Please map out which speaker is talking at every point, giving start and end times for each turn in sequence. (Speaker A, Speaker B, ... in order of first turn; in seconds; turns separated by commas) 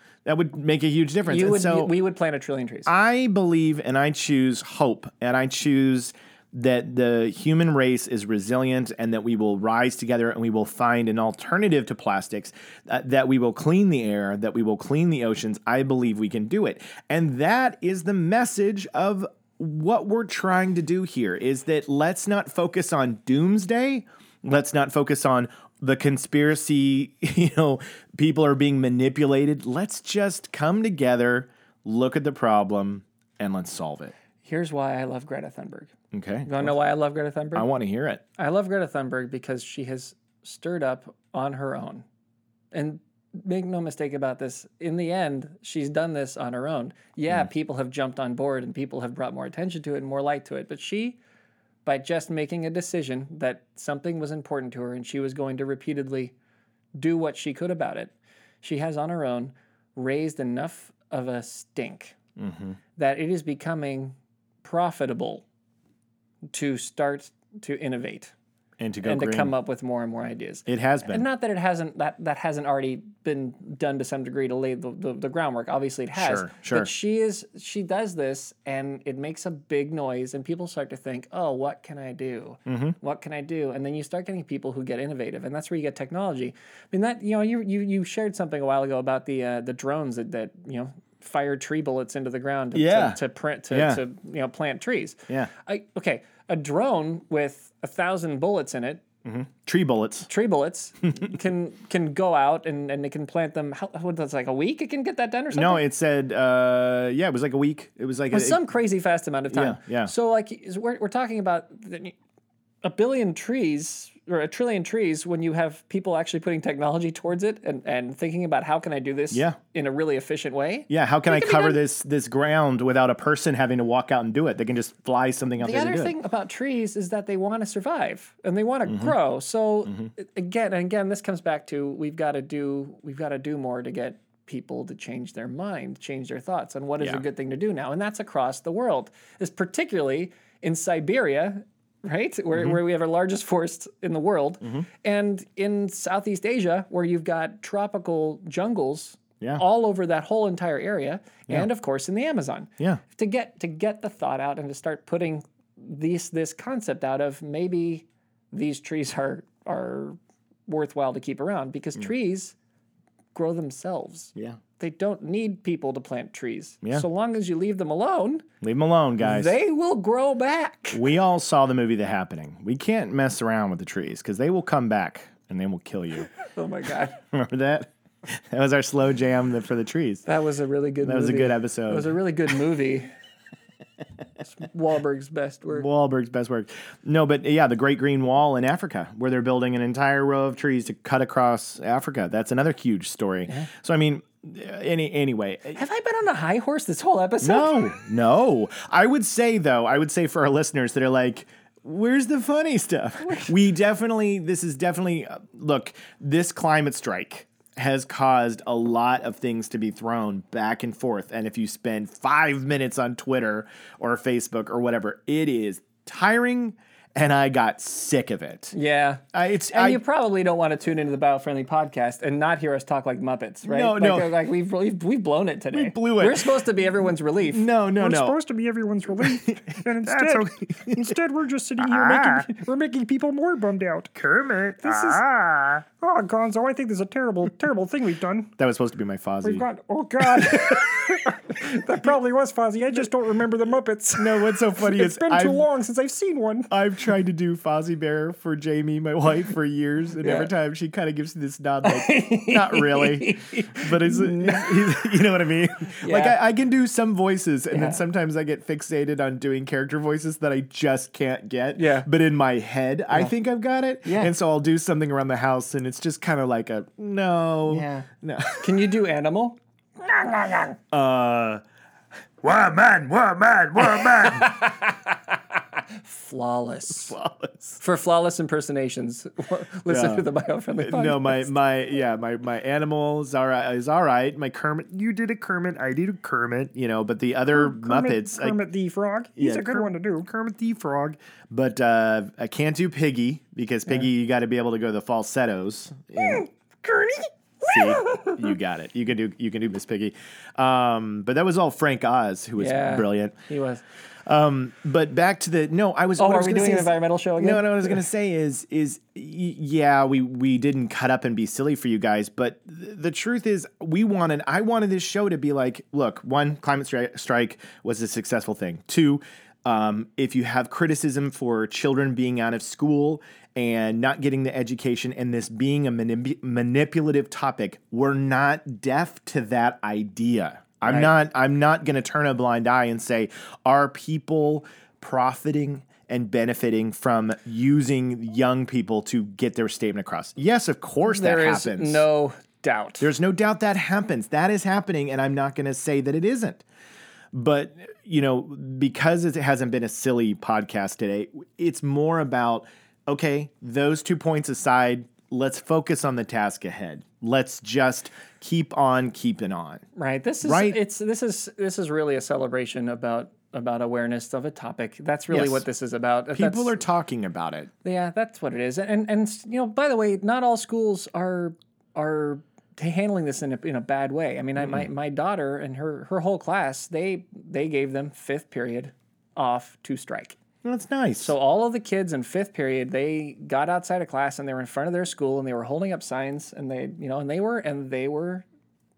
Speaker A: 0.2-1.9, Speaker B: 1.3-2.9, Speaker A: 2.9-34.1, Speaker B: 34.4-35.9, Speaker A: 36.1-36.7, Speaker B: 36.5-37.7, Speaker A: 37.5-38.2, Speaker B: 38.4-42.0, Speaker B: 42.7-51.2, Speaker B: 51.9-56.3, Speaker B: 57.0-62.2, Speaker A: 62.4-62.8, Speaker B: 63.0-65.5, Speaker B: 66.5-68.3, Speaker A: 68.8-69.5, Speaker B: 69.0-99.0, Speaker A: 70.7-71.2, Speaker A: 76.2-76.9, Speaker A: 82.7-83.0, Speaker A: 92.8-93.2, Speaker A: 93.7-94.0, Speaker A: 99.2-100.3, Speaker B: 100.3-105.8, Speaker A: 105.5-108.6, Speaker B: 108.3-112.2, Speaker A: 109.5-110.1, Speaker B: 112.8-121.8, Speaker A: 119.3-119.6, Speaker A: 120.9-126.1, Speaker B: 125.6-162.6, Speaker A: 128.9-129.1, Speaker B: 163.3-168.4, Speaker A: 168.6-169.6, Speaker B: 169.2-171.0, Speaker A: 170.9-176.3, Speaker B: 176.3-177.2, Speaker A: 177.3-180.2, Speaker B: 180.3-183.1, Speaker A: 181.0-182.2, Speaker B: 184.5-185.9, Speaker A: 185.7-195.8, Speaker B: 195.7-197.8, Speaker A: 197.4-218.8, Speaker B: 203.2-203.5, Speaker B: 218.7-227.6, Speaker A: 219.3-220.0, Speaker A: 223.7-224.3, Speaker A: 225.7-226.6, Speaker A: 227.4-228.4, Speaker C: 228.0-238.5, Speaker A: 229.2-231.2, Speaker A: 231.8-232.6, Speaker A: 234.8-235.2, Speaker A: 238.6-239.7, Speaker C: 239.4-246.7, Speaker A: 240.2-241.2, Speaker A: 244.2-245.7, Speaker A: 246.7-268.8, Speaker B: 250.2-250.5, Speaker B: 251.8-254.7, Speaker B: 256.0-256.4, Speaker B: 257.7-258.0, Speaker B: 261.8-262.1, Speaker B: 264.0-264.3, Speaker B: 267.7-268.1, Speaker B: 268.6-270.8, Speaker A: 270.9-271.6, Speaker A: 272.4-274.7, Speaker B: 273.8-275.1, Speaker B: 275.9-277.2, Speaker A: 277.1-277.8, Speaker B: 277.8-281.5, Speaker A: 279.9-280.3, Speaker A: 280.8-288.6, Speaker C: 285.1-286.1, Speaker C: 287.5-291.1, Speaker A: 289.4-290.3, Speaker A: 290.8-296.5, Speaker A: 297.6-303.4, Speaker B: 298.0-298.4, Speaker B: 302.6-303.8, Speaker A: 304.3-342.0, Speaker B: 306.2-308.0, Speaker B: 330.9-331.1, Speaker B: 341.1-343.1, Speaker A: 343.0-346.6, Speaker A: 347.3-359.8, Speaker B: 359.9-366.8, Speaker A: 360.4-360.8, Speaker A: 365.3-365.6, Speaker A: 366.3-367.7, Speaker B: 367.8-380.4, Speaker A: 380.6-381.3, Speaker B: 381.2-388.5